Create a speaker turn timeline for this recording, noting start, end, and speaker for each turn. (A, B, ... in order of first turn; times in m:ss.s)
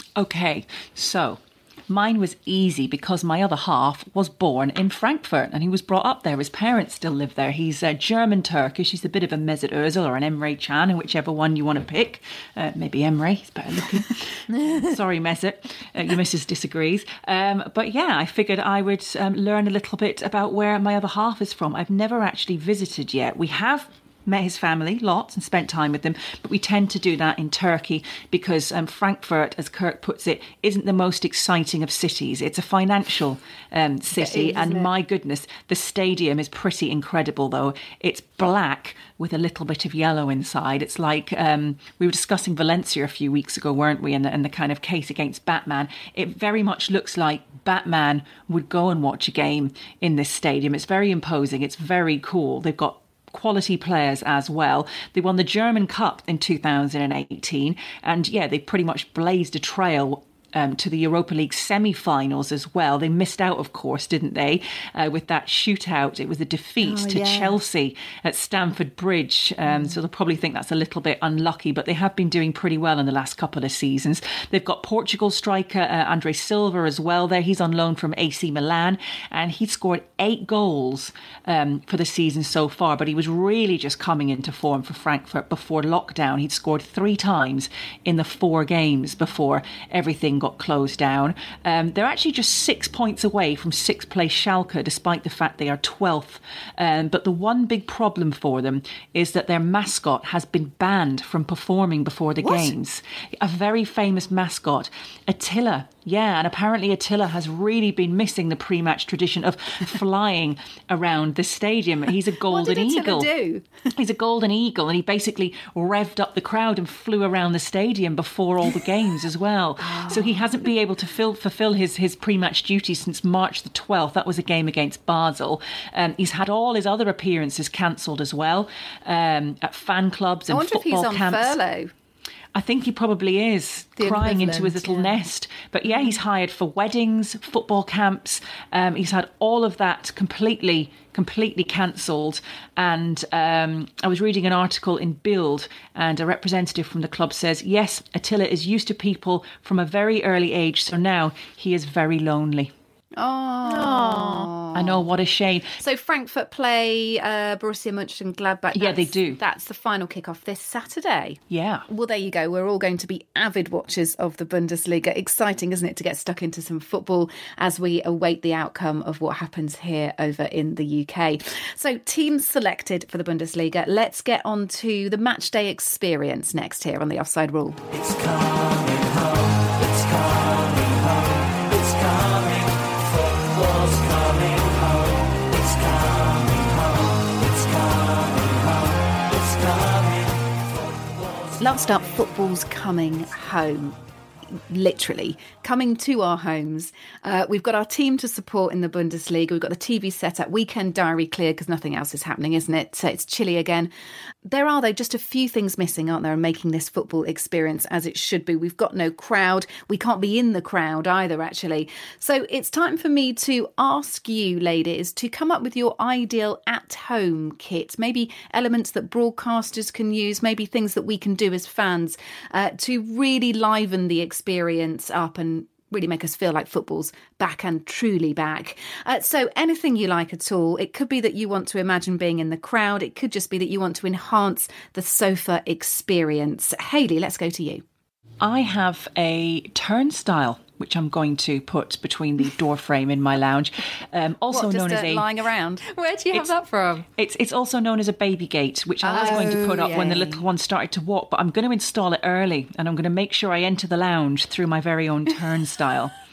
0:00.2-1:53.3 A
0:14.6-0:14.8 B
0:34.2-0:34.9 C
1:06.8-1:07.5 C
1:42.4-1:42.7 C
1:52.5-1:53.7 C
1:54.0-2:11.6 A
1:59.8-2:00.5 C
2:10.5-2:11.9 C
2:12.5-2:32.7 A
2:14.0-2:15.2 B
2:33.2-2:35.0 C
2:33.6-2:34.5 B
2:34.7-2:35.8 A
2:35.8-2:57.8 C
2:38.7-2:39.4 A
2:41.5-2:41.8 A
2:58.1-3:02.7 A
3:03.5-3:05.0 A
3:05.5-3:06.9 A
3:07.4-3:08.8 A
3:09.3-3:10.2 A
3:11.6-3:14.0 C
3:14.5-3:23.9 C
3:24.4-3:57.8 C
3:58.4-4:05.3 A
4:04.5-4:05.8 C
4:05.9-4:07.0 B
4:07.2-4:16.1 A
4:09.0-4:10.4 C
4:09.1-4:10.2 B